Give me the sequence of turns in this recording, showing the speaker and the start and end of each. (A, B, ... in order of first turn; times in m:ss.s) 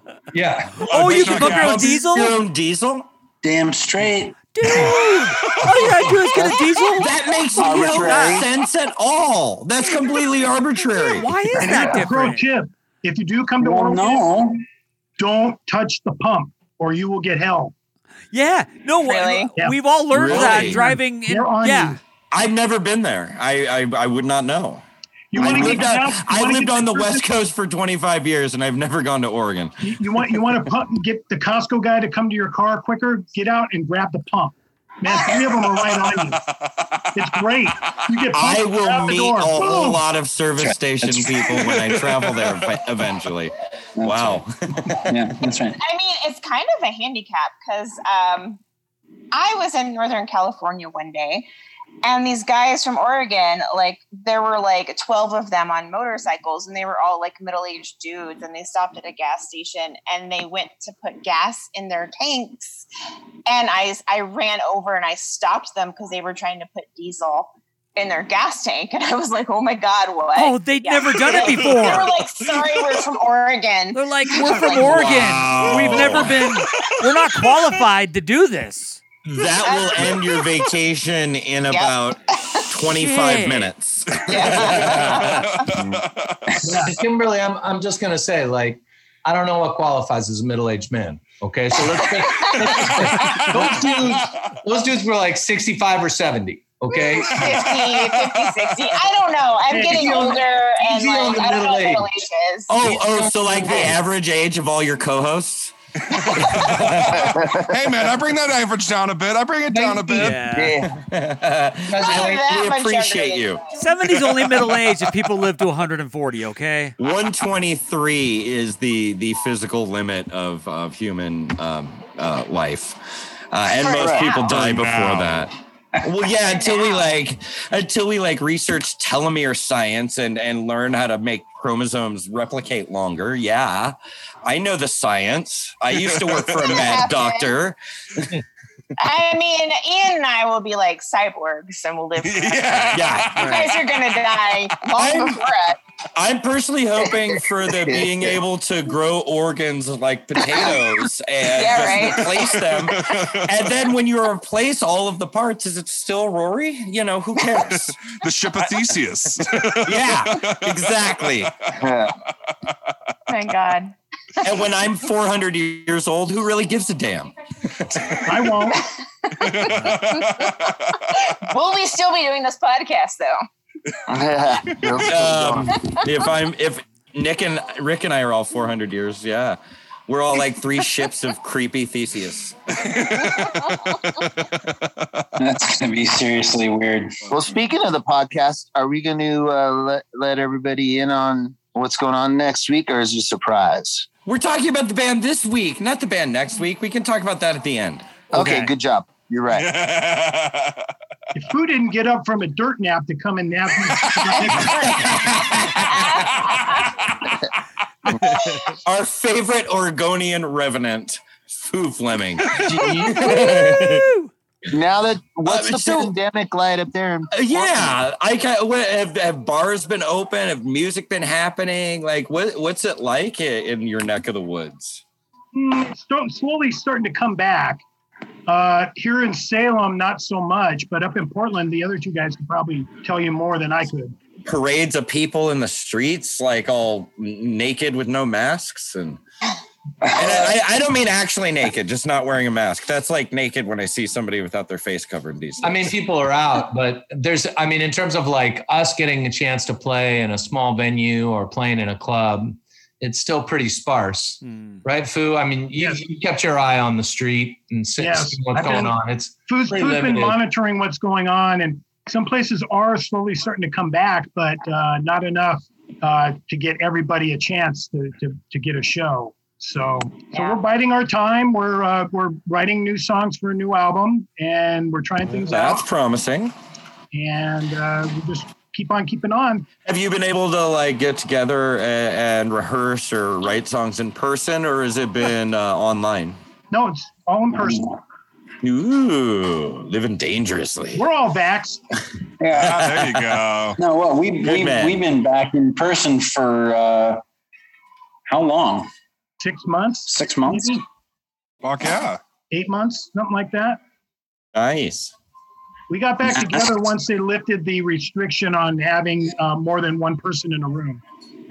0:00.3-0:01.6 A
0:00.8-0:02.0 B
0:00.9-0:02.4 C
0:01.2-0:03.0 D
0:03.4-0:04.5 E
0:04.5-0:08.4 C
0:04.7-0:06.3 B
0:07.0-0:11.3 D
0:07.6-0:08.4 F
0:07.7-0:08.4 E
0:11.0-0:12.5 C
0:11.6-0:14.3 G
0:13.6-0:14.6 E
0:15.2-0:17.7 G
0:18.3-0:22.0 C
0:19.0-0:19.5 H
0:19.6-0:22.0 G
0:20.1-0:20.8 D
0:22.3-0:29.8 D
0:25.3-0:27.2 G
0:29.8-0:36.4 G
0:36.2-0:37.2 B
0:37.2-0:40.0 G
0:38.3-0:45.1 D
0:40.6-0:41.8 E
0:42.1-0:42.6 B
0:44.0-0:44.4 E
0:45.0-0:45.8 E
0:45.8-0:48.6 H
0:49.3-0:51.5 H
0:52.0-1:02.8 H
1:03.4-1:15.6 H
1:10.3-1:12.1 C
1:11.3-1:13.0 B
1:13.9-1:19.0 C
1:14.8-1:16.8 B
1:15.0-1:16.4 D
1:19.2-1:25.5 D
1:19.6-1:20.7 H
1:21.7-1:22.7 H
1:23.0-1:23.7 C
1:24.3-1:25.7 H
1:24.3-1:26.7 B
1:25.8-1:26.0 E
1:26.6-1:37.9 A
1:26.7-1:26.9 G
1:32.0-1:33.5 H
1:33.5-1:34.3 B
1:36.9-1:43.9 H
1:37.4-1:38.8 B
1:39.7-1:42.2 A
1:42.7-1:45.7 D
1:42.8-1:43.9 A
1:46.1-1:50.4 B
1:46.4-1:47.2 D
1:47.1-1:47.7 F
1:49.7-1:50.3 A
1:50.2-1:50.7 C
1:50.5-1:50.9 F
1:50.8-1:53.6 D
1:51.9-1:52.4 A
1:51.9-1:53.8 H
1:53.8-1:57.0 C
1:54.3-1:54.7 B
1:57.0-2:03.0 D
2:03.5-2:05.5 D
2:03.8-2:04.6 H
2:04.0-2:04.3 F
2:04.4-2:05.5 B
2:06.0-2:18.3 D
2:06.4-2:07.2 H
2:15.9-2:16.8 B
2:16.6-2:17.5 H
2:19.0-2:25.8 H
2:22.2-2:23.8 B
2:22.9-2:23.5 D
2:23.4-2:23.6 C
2:24.9-2:25.4 D
2:26.1-2:38.1 D
2:27.7-2:28.4 F
2:31.5-2:33.1 H
2:32.9-2:33.5 B
2:38.1-2:40.8 B
2:39.8-2:41.5 D
2:41.8-2:42.1 F
2:43.3-2:44.5 H
2:44.4-2:48.2 D
2:48.2-2:48.8 G
2:48.7-2:50.5 H
2:49.4-2:50.9 B
2:51.1-2:53.4 H
2:54.1-2:55.7 F
2:55.0-3:02.6 D
3:02.8-3:04.8 B
3:03.3-3:03.9 H
3:05.4-3:07.3 E
3:07.3-3:14.1 F
3:14.2-3:18.1 D
3:18.3-3:19.7 F
3:18.3-3:18.7 C
3:19.6-3:20.8 B
3:21.3-3:25.1 G
3:24.3-3:25.1 H
3:24.7-3:26.0 D
3:25.9-3:26.9 H
3:26.3-3:27.2 B
3:28.8-3:34.1 D
3:32.6-3:33.3 F
3:33.1-3:34.3 C
3:34.7-3:38.0 F
3:35.4-3:36.1 D
3:37.3-3:45.0 D
3:45.5-3:47.8 G
3:48.5-3:54.2 G
3:54.4-3:59.2 D
4:00.1-4:00.5 E
4:00.1-4:05.9 D
4:05.6-4:20.4 A
4:14.4-4:14.8 C
4:15.8-4:16.0 G
4:18.0-4:19.0 G
4:19.5-4:35.8 G
4:30.3-4:30.6 H
4:35.3-4:36.5 D
4:37.1-4:39.7 G
4:39.8-4:46.4 D
4:46.7-4:48.0 G
4:48.6-4:51.0 D
4:50.9-4:51.8 G
4:52.4-4:53.1 E
4:52.6-4:53.8 B
4:53.8-4:57.2 E
4:54.4-4:55.0 D
4:58.3-4:58.9 E
4:59.4-5:00.8 G
5:00.1-5:00.8 E
5:01.6-5:02.2 B
5:02.5-5:03.8 G
5:04.5-5:05.1 D
5:05.9-5:11.0 G
5:06.2-5:06.6 E